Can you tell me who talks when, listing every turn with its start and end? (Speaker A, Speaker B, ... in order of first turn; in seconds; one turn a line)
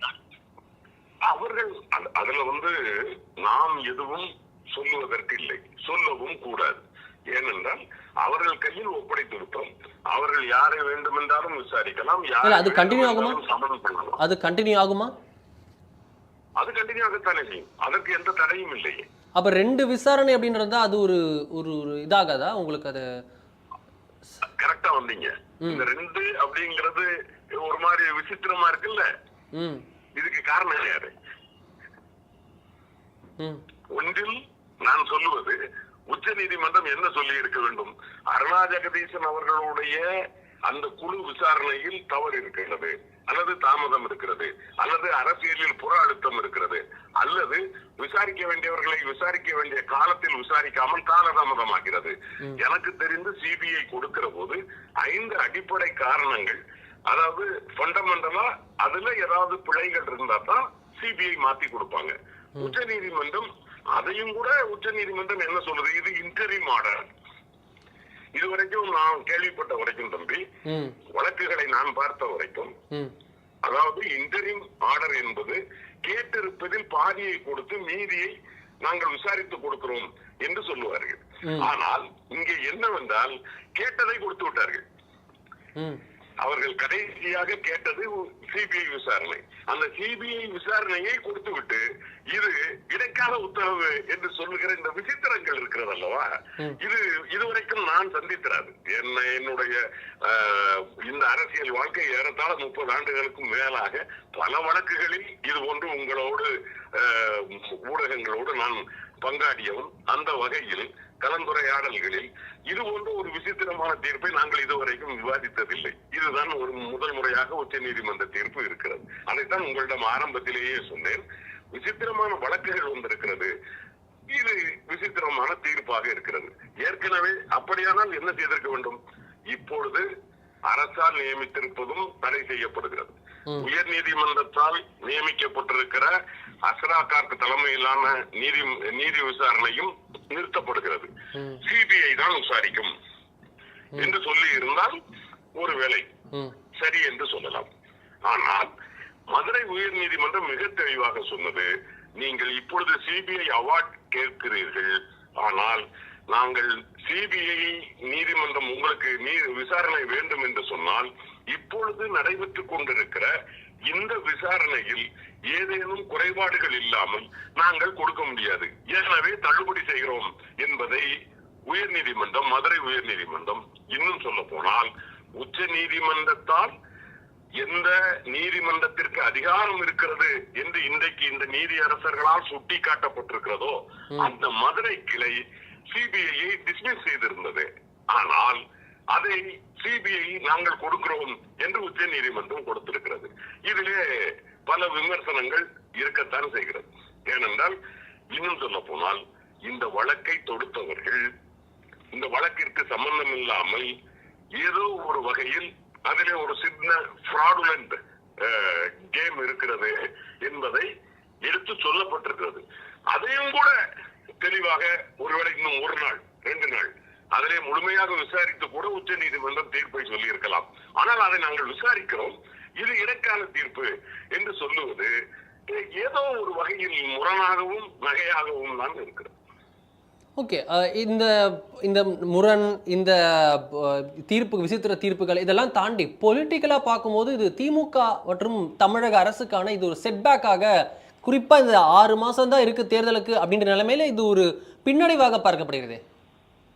Speaker A: 1.2-14.2
Speaker B: 12.4-13.4
Speaker B: 14.2-15.1
Speaker A: 16.6-19.0
Speaker B: 19.3-23.0
Speaker A: 24.6-29.1
Speaker B: 29.5-29.8
Speaker A: 30.1-31.1
Speaker A: 33.9-35.6
Speaker A: 36.1-40.0
Speaker A: 40.7-67.1
Speaker A: 68.3-70.4
Speaker B: 70.7-70.9
Speaker A: 71.1-72.7
Speaker A: 73.6-78.3
Speaker A: 78.8-84.8
Speaker A: 86.4-96.3
Speaker A: 96.8-121.2
Speaker A: 121.7-123.5
Speaker A: 124.3-129.0
Speaker A: 129.5-130.1
Speaker A: 130.7-136.1
Speaker A: 136.6-141.1
Speaker A: 141.6-142.9
Speaker A: 143.9-145.0
Speaker A: 145.6-146.1
Speaker A: 146.8-147.7
Speaker A: 148.3-148.7
Speaker A: 149.3-163.3
Speaker A: 163.9-171.1
Speaker A: 171.7-176.7
Speaker A: 177.6-185.4
Speaker A: 185.9-188.6
Speaker A: 189.1-197.7
Speaker A: 198.3-201.2
Speaker A: 202.1-203.9
Speaker A: 204.6-210.9
Speaker A: 211.4-212.6
Speaker A: 213.1-213.7
Speaker A: 214.4-225.1
Speaker A: 225.7-229.3
Speaker B: 230.4-240.7
Speaker B: 241.2-246.0